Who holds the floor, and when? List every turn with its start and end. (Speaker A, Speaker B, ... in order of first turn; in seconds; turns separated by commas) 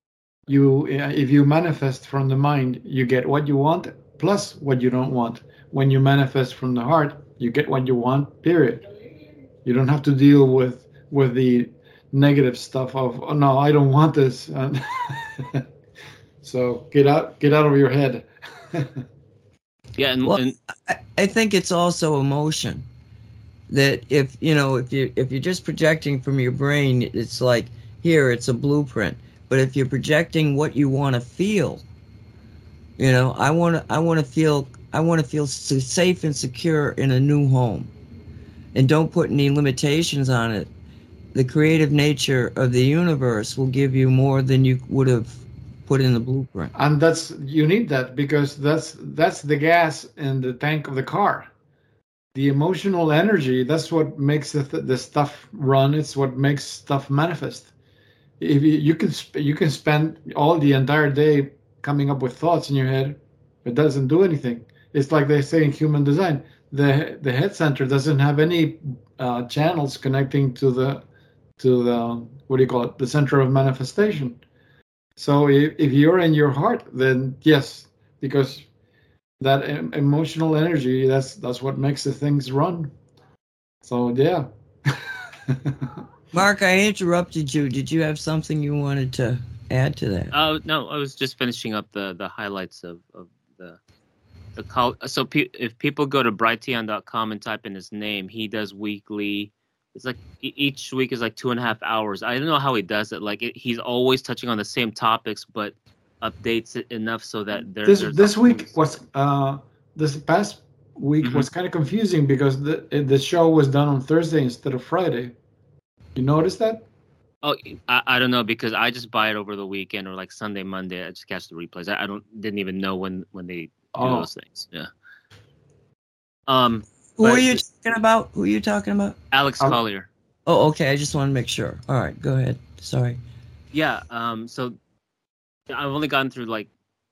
Speaker A: 0.5-8.8, Speaker A: 9.7-15.7, Speaker A: 16.4-19.0, Speaker B: 20.0-20.6, Speaker C: 20.2-22.9, Speaker C: 23.7-31.8, Speaker C: 33.0-37.9, Speaker C: 38.8-40.7, Speaker C: 41.3-46.7, Speaker A: 46.8-51.5, Speaker A: 52.4-57.7, Speaker A: 58.4-71.0, Speaker A: 71.6-74.4, Speaker A: 75.2-78.7, Speaker A: 79.4-82.9, Speaker A: 83.8-86.0, Speaker C: 86.3-90.3, Speaker B: 90.3-93.8, Speaker B: 94.6-108.9, Speaker A: 107.8-115.3, Speaker B: 111.2-111.5, Speaker A: 116.2-116.9, Speaker B: 117.4-124.9, Speaker A: 124.0-124.3, Speaker B: 126.5-127.6, Speaker C: 127.2-129.2, Speaker B: 129.3-130.1, Speaker C: 130.5-133.2, Speaker B: 133.7-134.8, Speaker B: 135.7-136.7